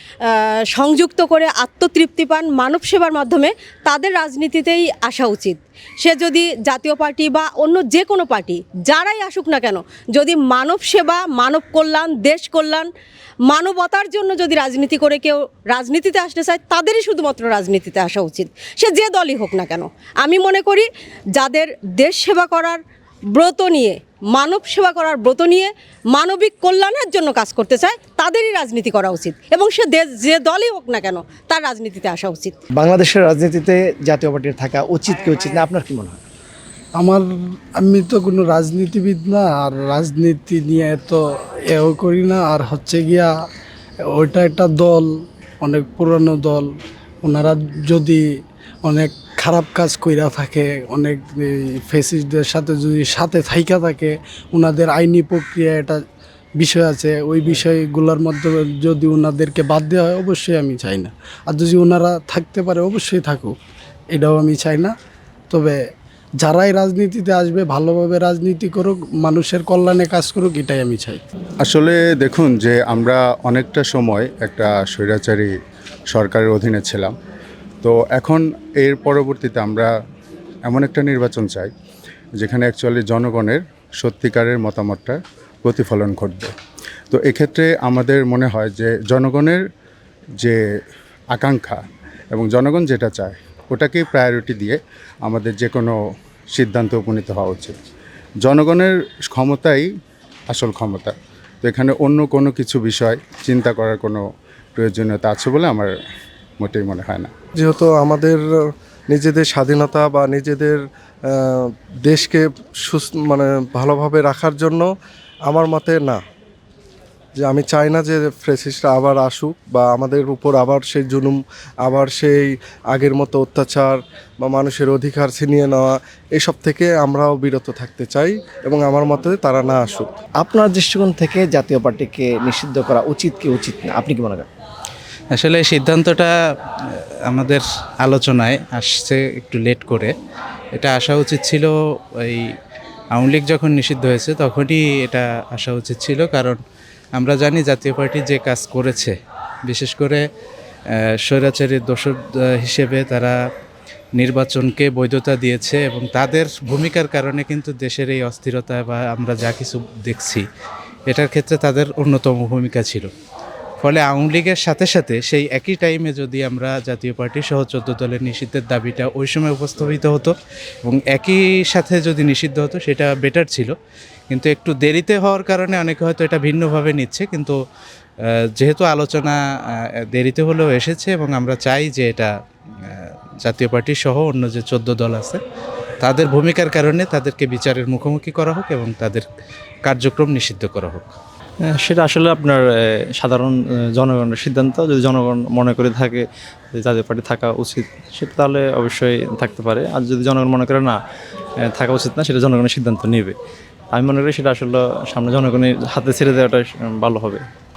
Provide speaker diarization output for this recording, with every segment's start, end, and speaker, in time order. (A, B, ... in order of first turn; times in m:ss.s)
0:00.2-0:12.9 A
0:13.5-0:22.8 A
0:23.3-0:32.6 A
0:32.8-0:36.2 B
0:37.0-0:37.2 C
0:37.8-0:43.3 C
0:44.1-0:45.1 C
0:45.6-0:46.7 C
0:47.2-0:48.2 C
0:48.8-0:56.0 C
0:56.6-1:03.5 C
1:04.1-1:04.9 C
1:05.5-1:05.8 C
1:06.4-1:11.2 C
1:11.6-1:15.5 D
1:16.1-1:17.2 D
1:17.8-1:19.9 D
1:20.6-1:21.7 D
1:22.4-1:26.5 D
1:27.1-1:29.6 D
1:31.3-1:31.8 D
1:32.3-1:35.9 D
1:36.5-1:37.8 D
1:38.4-1:39.9 D
1:40.5-1:44.2 D
1:44.8-1:45.9 D
1:46.6-1:47.3 D
1:47.6-1:48.4 E
1:49.1-1:54.9 E
1:55.5-1:56.2 E
1:57.4-2:10.1 E
2:10.4-2:14.5 B
2:15.3-2:16.3 F
2:16.9-2:20.1 F
2:20.8-2:22.5 F
2:23.1-2:26.6 F
2:27.2-2:29.2 F
2:29.7-2:30.2 F
2:31.2-2:33.4 F
2:34.2-2:40.4 F
2:41.1-2:43.1 F
2:43.8-2:50.3 F
2:50.8-2:53.7 F
2:54.3-2:57.5 F
2:58.3-2:59.4 F
3:00.2-3:02.3 F
3:02.9-3:05.4 F
3:06.0-3:09.2 F
3:09.8-3:11.1 F
3:11.8-3:12.6 G
3:13.2-3:16.2 G
3:16.8-3:21.0 G
3:21.8-3:23.3 G
3:24.0-3:27.4 G